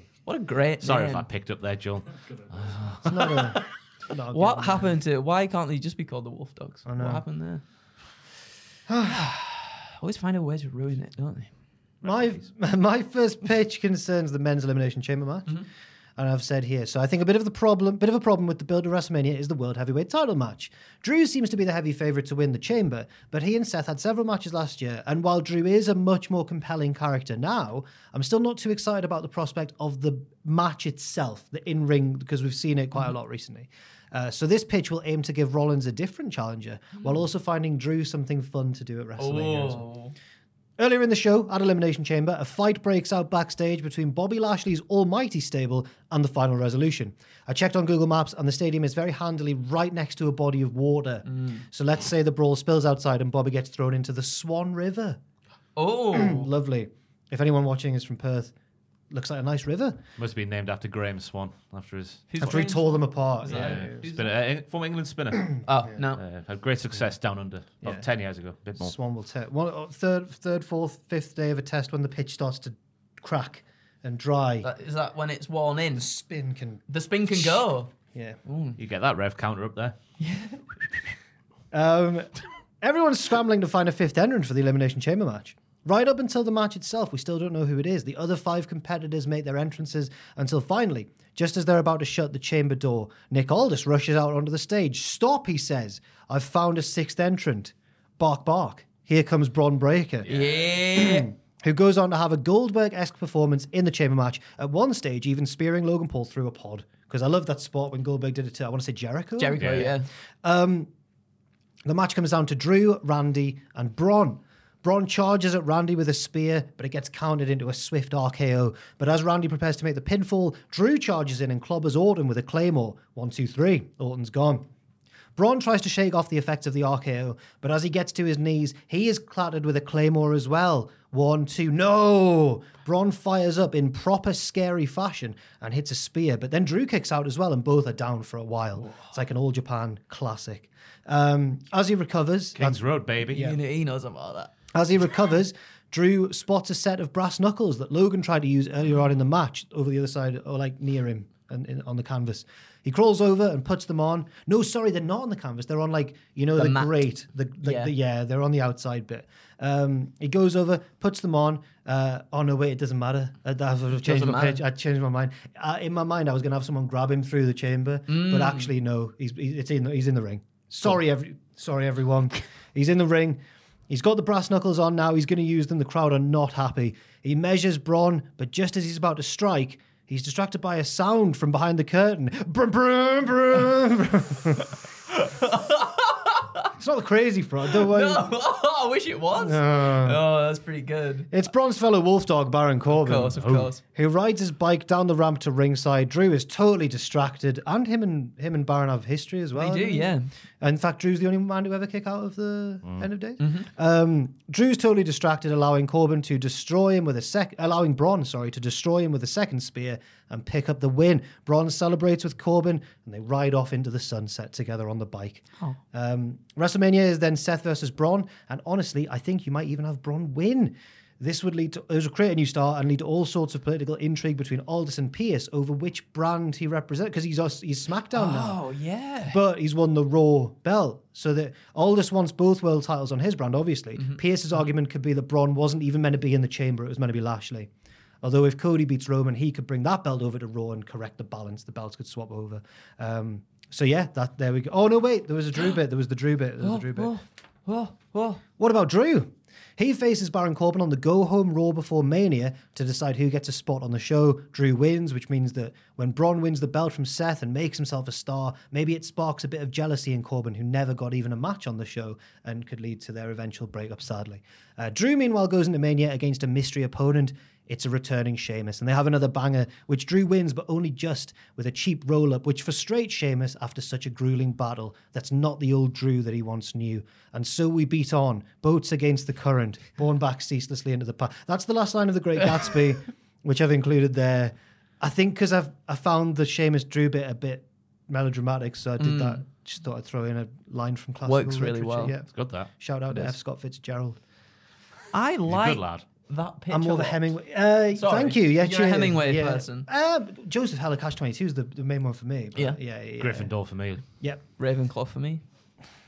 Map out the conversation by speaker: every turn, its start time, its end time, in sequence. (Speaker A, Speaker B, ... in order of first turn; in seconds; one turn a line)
Speaker A: 0.2-1.2
Speaker B: 0.8-3.6
Speaker C: 3.0-5.0
Speaker A: 4.3-7.6
Speaker C: 6.8-7.2
Speaker C: 8.9-9.3
Speaker A: 9.0-11.5
Speaker B: 12.0-12.4
Speaker C: 12.0-15.6
Speaker C: 16.2-39.9
Speaker A: 39.2-40.1
Speaker C: 40.8-55.2
Speaker A: 51.2-51.6
Speaker A: 55.8-56.5
Speaker C: 56.1-58.5
Speaker C: 59.1-60.0
Speaker B: 60.2-62.6
Speaker A: 62.3-64.3
Speaker C: 62.4-64.0
Speaker B: 63.5-65.7
Speaker A: 65.7-66.2
Speaker B: 66.2-68.9
Speaker C: 68.8-74.7
Speaker A: 74.6-76.1
Speaker C: 76.0-78.4
Speaker A: 76.9-77.9
Speaker A: 78.4-78.8
Speaker B: 78.8-80.0
Speaker A: 80.2-80.6
Speaker C: 81.7-100.3
Speaker B: 100.3-100.6
Speaker A: 100.3-101.3
Speaker C: 100.9-110.9
Speaker A: 109.4-110.1
Speaker B: 109.6-109.9
Speaker C: 111.8-124.7
Speaker C: 125.3-143.6
Speaker A: 138.8-139.1
Speaker B: 142.6-143.5
Speaker A: 143.3-144.5
Speaker C: 144.7-184.7
Speaker A: 156.5-157.0
Speaker A: 157.6-157.9
Speaker A: 164.0-164.6
Speaker A: 168.1-168.7
Speaker A: 185.1-186.7
Speaker C: 186.8-188.3
Speaker A: 187.7-191.3
Speaker C: 189.4-190.2
Speaker C: 191.3-228.6
Speaker A: 192.9-193.8
Speaker A: 199.6-200.3
Speaker A: 203.4-203.7
Speaker A: 228.1-229.4
Speaker C: 229.3-237.7
Speaker A: 234.0-234.6
Speaker C: 238.2-247.1
Speaker A: 246.6-248.4
Speaker C: 248.6-294.2
Speaker A: 289.0-289.4
Speaker A: 291.2-292.1
Speaker B: 292.3-292.7
Speaker A: 295.1-297.2
Speaker B: 295.5-296.0
Speaker C: 296.7-303.5
Speaker A: 297.9-299.9
Speaker B: 303.2-304.0
Speaker A: 304.6-305.4